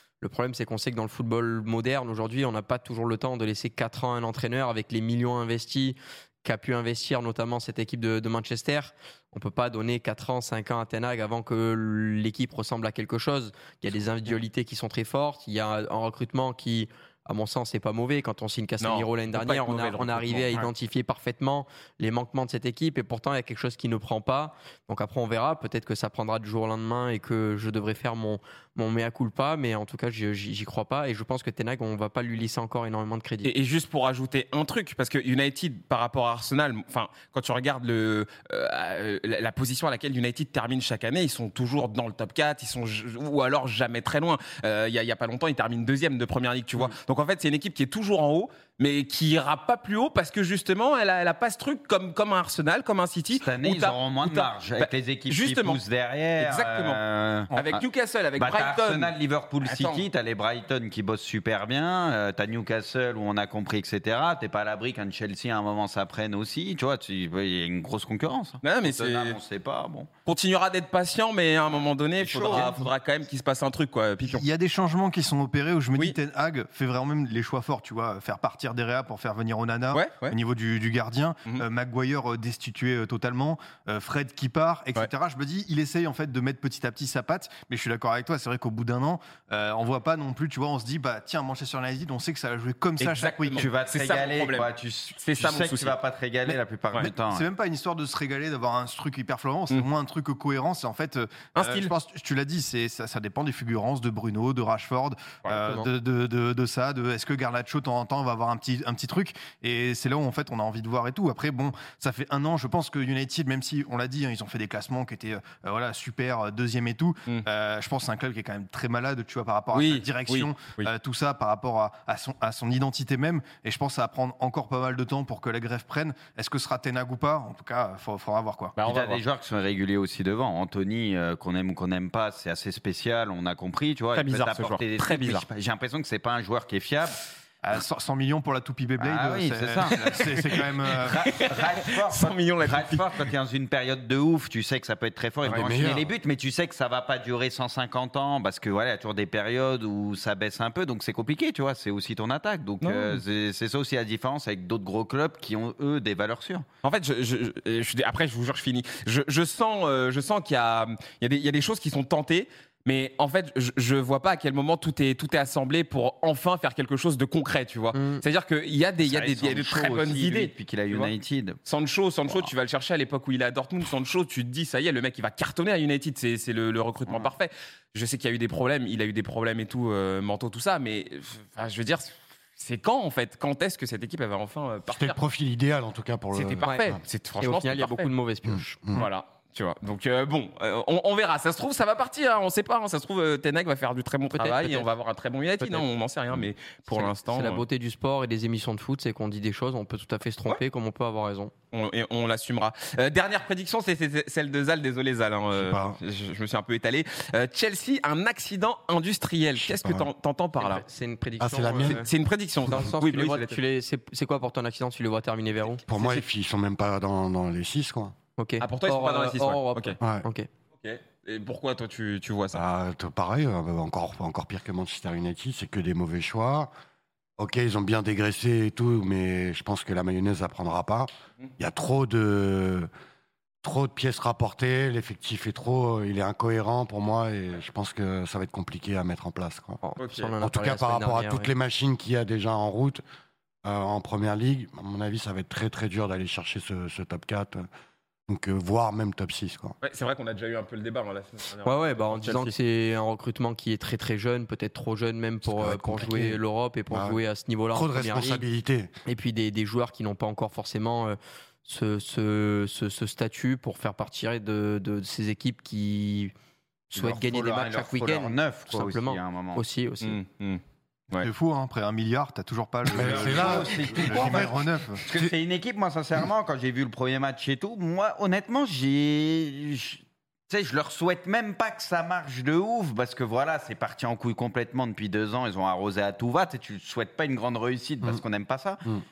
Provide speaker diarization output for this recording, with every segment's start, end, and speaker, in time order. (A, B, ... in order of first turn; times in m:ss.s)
0:00.2-0:33.5 A
0:18.8-0:20.7 B
0:33.4-0:55.8 B
0:53.3-0:57.8 C
0:56.4-0:57.0 B
0:57.5-1:00.0 B
0:58.4-1:10.1 C
1:08.6-1:09.4 B
1:10.2-1:14.4 B
1:12.2-1:12.9 C
1:14.2-1:33.7 D
1:19.9-1:20.3 B
1:33.0-1:35.9 B
1:33.5-1:37.5 C
1:37.0-2:08.8 D
1:41.5-1:41.9 B
1:45.6-1:45.9 A
1:59.7-2:00.9 B
2:08.8-2:09.2 B
2:08.8-2:17.2 C
2:14.1-2:15.4 B
2:17.6-2:21.2 D
2:19.0-2:36.6 C
2:21.0-2:23.3 B
2:25.4-2:26.1 E
2:32.8-2:33.2 B
2:36.8-2:51.1 B
2:47.9-2:48.2 A
2:49.0-2:51.6 C
2:51.6-3:05.2 B
3:04.9-3:06.6 E
3:06.3-3:08.1 B
3:06.6-3:08.8 A
3:08.4-3:09.1 E
3:08.9-3:17.6 B
3:14.4-3:14.9 A
3:16.9-3:21.5 A
3:21.7-3:30.8 B
3:25.5-3:26.0 E
3:29.6-3:30.1 E
3:30.6-3:32.1 A
3:31.4-3:32.0 E
3:31.8-3:33.6 B
3:32.7-3:35.8 A
3:35.9-3:38.1 E
3:35.9-3:36.2 B
3:38.4-3:40.5 A
3:38.6-3:40.0 B
3:40.0-3:40.2 E
3:40.8-3:42.6 B
3:42.5-3:46.7 E
3:47.4-3:52.9 E
3:53.6-3:59.8 E
3:59.8-4:01.5 A
4:00.0-4:00.3 B
4:00.4-4:03.0 E
4:03.6-4:07.7 E
4:08.3-4:09.8 E
4:09.8-4:12.5 B
4:11.6-4:18.4 A
4:15.5-4:17.2 E
4:17.7-4:18.9 E
4:19.0-4:26.3 A
4:26.9-4:30.2 A
4:26.9-4:29.6 C
4:30.0-4:31.3 B
4:31.2-4:35.1 D
4:32.9-4:34.5 E
4:32.9-4:48.8 C